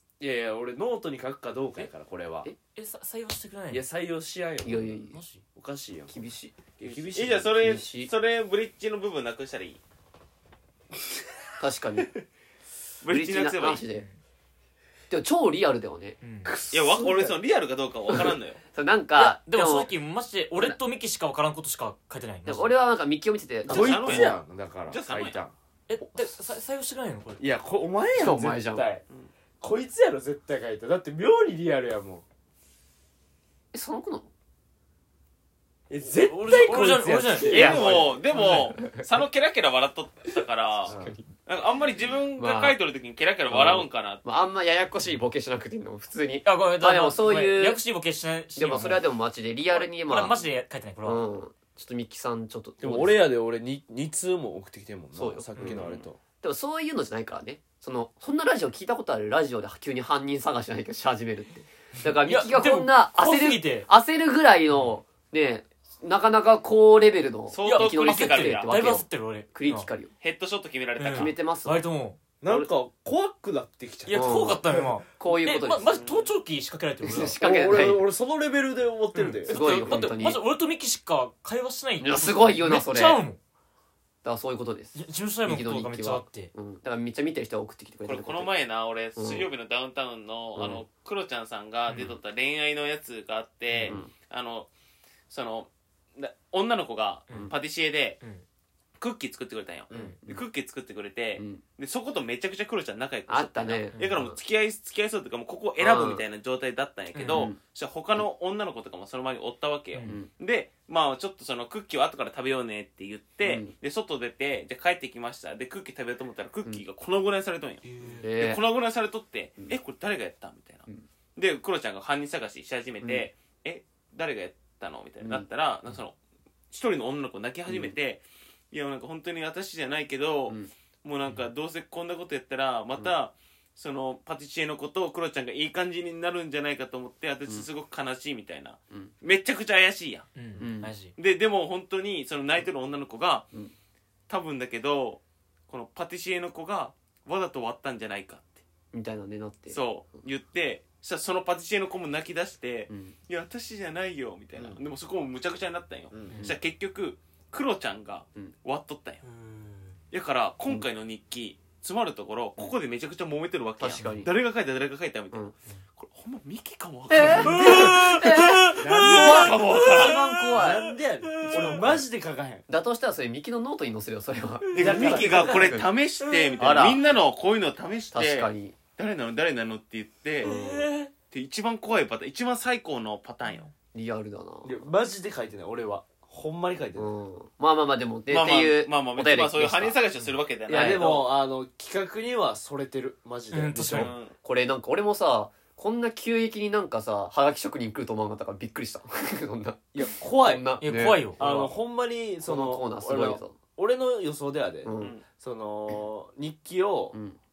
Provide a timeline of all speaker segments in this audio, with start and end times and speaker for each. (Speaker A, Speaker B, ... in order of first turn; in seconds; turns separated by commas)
Speaker A: 0.2-2.5, Speaker B: 2.7-3.8, Speaker A: 3.7-5.0, Speaker C: 4.6-5.2, Speaker B: 5.1-5.4, Speaker A: 5.5-6.2, Speaker C: 6.1-8.1, Speaker A: 6.8-7.5, Speaker D: 7.1-9.8, Speaker C: 11.6-12.1, Speaker D: 13.0-13.8, Speaker C: 13.1-14.0, Speaker B: 13.9-14.2, Speaker C: 15.1-16.2, Speaker B: 16.2-16.5, Speaker A: 16.4-17.4, Speaker D: 16.7-18.6, Speaker C: 18.7-19.9, Speaker B: 19.2-22.7, Speaker C: 22.4-24.3, Speaker A: 23.7-25.5, Speaker D: 23.7-24.4, Speaker D: 24.9-25.4, Speaker B: 25.9-27.6, Speaker A: 27.4-29.0, Speaker C: 28.1-28.8, Speaker A: 29.6-32.2, Speaker C: 33.7-34.3, Speaker A: 35.9-38.2, Speaker B: 36.1-38.7, Speaker D: 37.4-40.9, Speaker C: 37.5-39.0, Speaker C: 40.3-41.3, Speaker A: 40.9-41.1, Speaker D: 41.5-44.2, Speaker C: 42.3-42.8, Speaker C: 43.5-47.8, Speaker B: 46.4-49.0, Speaker C: 48.5-50.4, Speaker B: 49.7-51.3, Speaker C: 51.0-53.2, Speaker A: 52.8-56.2, Speaker C: 55.1-55.8, Speaker D: 55.7-56.0, Speaker C: 56.4-70.1, Speaker B: 62.2-63.9, Speaker D: 67.5-68.8, Speaker B: 67.6-69.9, Speaker D: 70.2-71.4, Speaker B: 71.0-72.2, Speaker C: 71.1-71.8, Speaker A: 72.4-75.0, Speaker B: 74.1-77.4, Speaker C: 74.1-74.6, Speaker C: 75.2-76.0, Speaker D: 75.9-76.3, Speaker C: 77.0-78.0, Speaker A: 77.4-80.0, Speaker B: 79.1-83.4, Speaker C: 79.5-80.4, Speaker C: 82.0-83.2, Speaker C: 84.2-88.5, Speaker B: 84.9-86.5, Speaker D: 88.0-94.7, Speaker C: 89.2-89.5, Speaker C: 90.5-90.8, Speaker B: 91.9-92.1, Speaker B: 93.7-94.0, Speaker D: 95.3-98.2, Speaker D: 99.0-126.1, Speaker C: 99.9-100.2, Speaker C: 103.3-104.4, Speaker B: 103.9-104.2, Speaker C: 105.8-106.2, Speaker B: 107.1-107.5, Speaker C: 107.3-107.6, Speaker C: 110.0-110.3, Speaker C: 113.4-113.7, Speaker B: 117.8-118.3, Speaker C: 118.2-118.6, Speaker C: 123.0-123.3, Speaker C: 125.2-125.5, Speaker D: 126.7-140.3, Speaker B: 140.3-141.1, Speaker C: 140.6-140.9, Speaker D: 141.2-143.5, Speaker D: 144.3-148.6, Speaker C: 148.9-149.8, Speaker D: 149.7-159.2, Speaker C: 152.9-153.1, Speaker A: 156.1-156.4, Speaker B: 159.2-160.0, Speaker D: 160.1-165.4, Speaker C: 163.8-164.3, Speaker D: 166.0-170.2, Speaker C: 167.1-170.9, Speaker B: 167.2-170.7, Speaker A: 167.5-168.0, Speaker A: 168.7-172.6, Speaker B: 171.4-171.9, Speaker C: 172.7-175.8, Speaker D: 174.7-180.5, Speaker A: 174.8-175.8, Speaker B: 176.2-176.8, Speaker C: 176.6-177.0, Speaker C: 178.1-178.8, Speaker B: 180.4-181.1, Speaker C: 180.4-180.9, Speaker D: 181.3-183.7, Speaker C: 183.9-184.9, Speaker A: 184.6-187.1, Speaker C: 187.0-190.0, Speaker D: 188.3-191.3, Speaker A: 190.7-194.1, Speaker B: 193.5-194.1, Speaker D: 193.9-194.3, Speaker C: 194.4-201.7, Speaker A: 199.9-200.8, Speaker B: 200.8-201.7, Speaker A: 201.4-207.2, Speaker C: 202.4-203.6, Speaker C: 204.8-205.1, Speaker D: 205.0-205.2, Speaker C: 207.1-207.4